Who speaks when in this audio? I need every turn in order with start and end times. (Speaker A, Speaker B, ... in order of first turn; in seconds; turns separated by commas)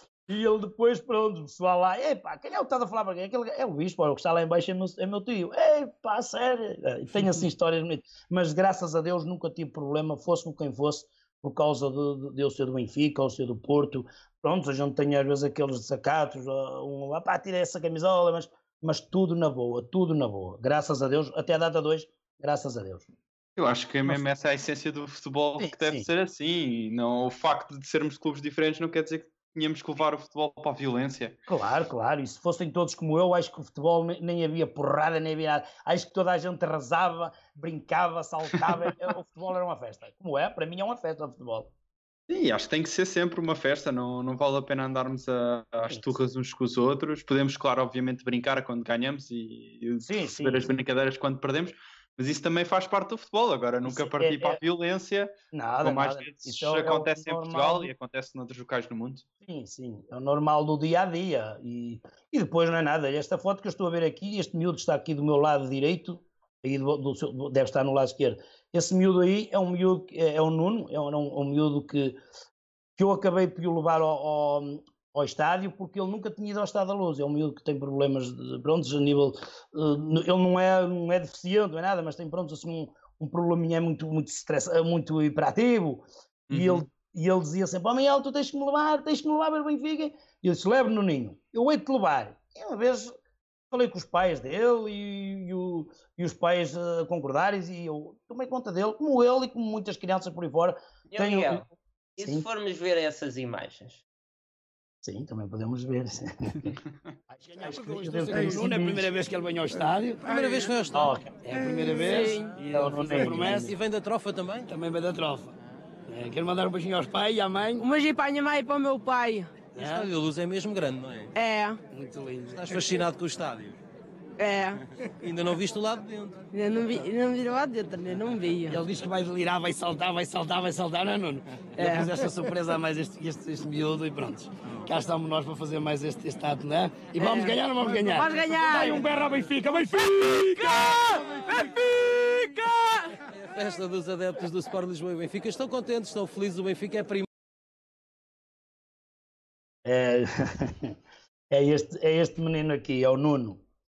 Speaker A: 0.3-23.1, Speaker B: 23.6-31.3, Speaker A: 25.6-26.1, Speaker A: 31.5-41.7, Speaker B: 42.3-59.2, Speaker A: 50.0-50.7, Speaker A: 53.8-54.6, Speaker A: 55.5-57.9, Speaker A: 59.4-72.2, Speaker A: 73.0-93.1, Speaker B: 86.5-86.8, Speaker A: 93.7-101.7, Speaker C: 101.1-104.0, Speaker A: 102.2-102.5, Speaker A: 105.0-106.7, Speaker A: 107.3-109.0, Speaker D: 107.6-110.5, Speaker E: 108.3-108.6, Speaker E: 110.2-111.2, Speaker A: 110.9-111.3, Speaker D: 111.3-113.7, Speaker F: 111.5-112.6, Speaker A: 112.7-113.7, Speaker E: 112.8-114.7, Speaker D: 114.7-115.5, Speaker D: 116.1-117.9, Speaker F: 117.8-119.6, Speaker D: 119.7-120.1, Speaker E: 119.8-121.3, Speaker F: 121.3-121.8, Speaker D: 121.9-122.9, Speaker E: 122.5-123.8, Speaker F: 124.4-124.8, Speaker E: 125.2-126.4, Speaker F: 126.5-128.8, Speaker D: 128.7-141.0, Speaker F: 131.8-132.3, Speaker F: 137.2-139.1, Speaker F: 141.8-143.1, Speaker E: 143.3-147.2, Speaker A: 149.8-150.9, Speaker A: 151.5-153.6